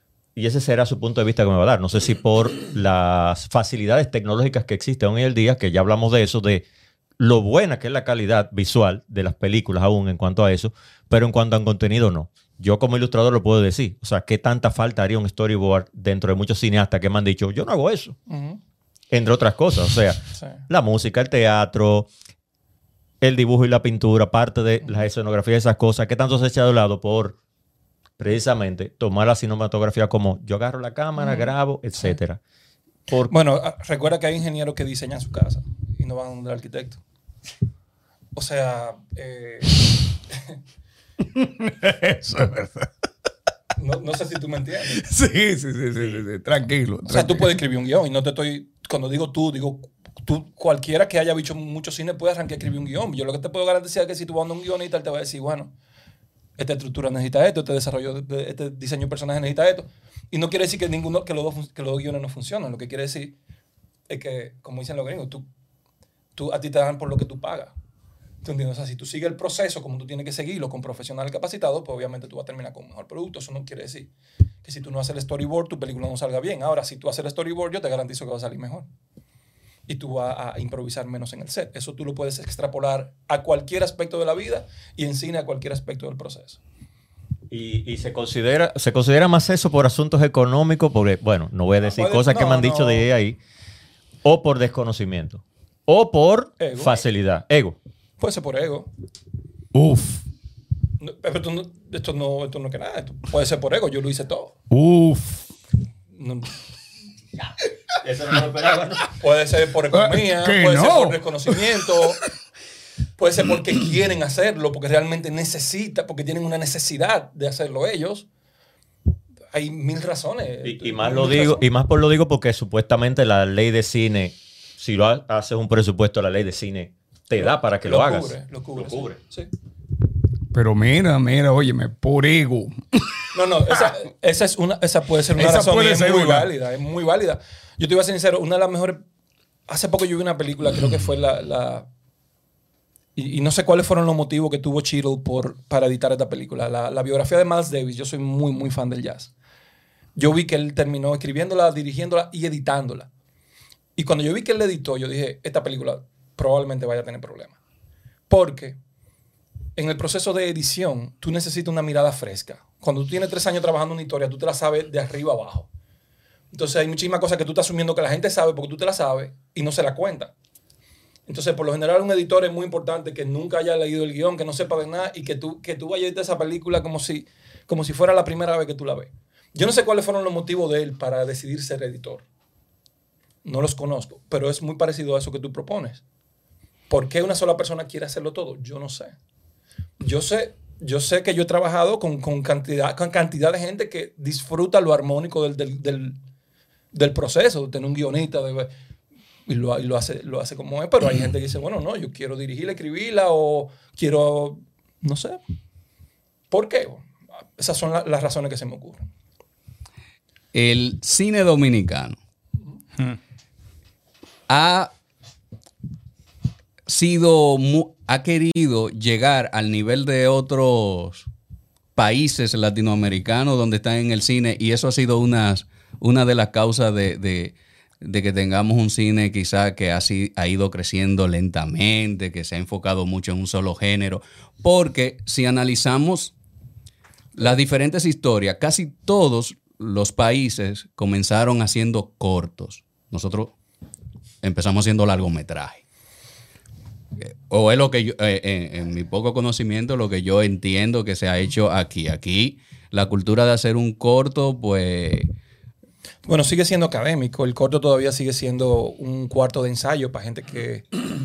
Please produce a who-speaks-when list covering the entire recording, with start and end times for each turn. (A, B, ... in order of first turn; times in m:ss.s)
0:00.4-0:06.7 A
0:07.2-0:18.2 A
0:18.3-0:18.6 B
0:19.1-0:22.1 A
0:20.4-0:20.6 B
0:23.2-0:27.4 A
0:28.2-0:32.4 A
0:31.2-0:31.5 B
0:33.1-0:33.3 A
0:33.3-0:37.0 B
0:38.4-0:39.8 B
0:41.3-0:42.9 C
0:43.8-0:45.1 B
0:44.9-0:47.6 C
0:47.1-0:55.7 B
0:56.6-1:03.4 B
1:04.1-1:05.5 B
1:06.4-1:07.7 B
1:08.4-1:14.1 B
1:14.6-1:18.9 B
1:19.9-1:26.6 B
1:27.5-1:33.4 A
1:31.8-1:33.1 B
1:34.2-1:37.8 A
1:36.6-1:37.0 B
1:38.2-1:38.9 B
1:39.7-1:40.2 C
1:41.0-1:44.5 B
1:44.7-1:45.5 C
1:46.2-1:46.5 B
1:48.0-1:49.2 A
1:49.2-1:52.2 B
1:49.9-1:52.0 C
1:53.2-1:58.3 B
1:59.5-2:01.6 B
2:00.6-2:09.2 A
2:07.4-2:09.5 B
2:10.5-2:13.1 C
2:13.3-2:19.0 B
2:15.3-2:16.5 C
2:19.7-2:21.9 B
2:23.2-2:29.3 B
2:30.2-2:33.1 B
2:34.0-2:37.6 B
2:38.3-2:38.8 B
2:39.8-2:45.7 B
2:46.5-2:50.3 B
2:51.3-3:02.2 B
3:03.4-3:06.0 B
3:06.9-3:09.2 B
3:10.0-3:16.2 B
3:16.9-3:18.7 B
3:19.5-3:25.4 B
3:26.5-3:27.1 B
3:27.6-3:29.1 B
3:30.5-3:32.2 D
3:34.5-3:34.9 D
3:36.9-3:41.3 D
3:42.0-3:56.4 D
3:57.4-4:03.6 D
4:04.4-4:05.8 D
4:07.2-4:15.3 D
4:16.3-4:20.9 B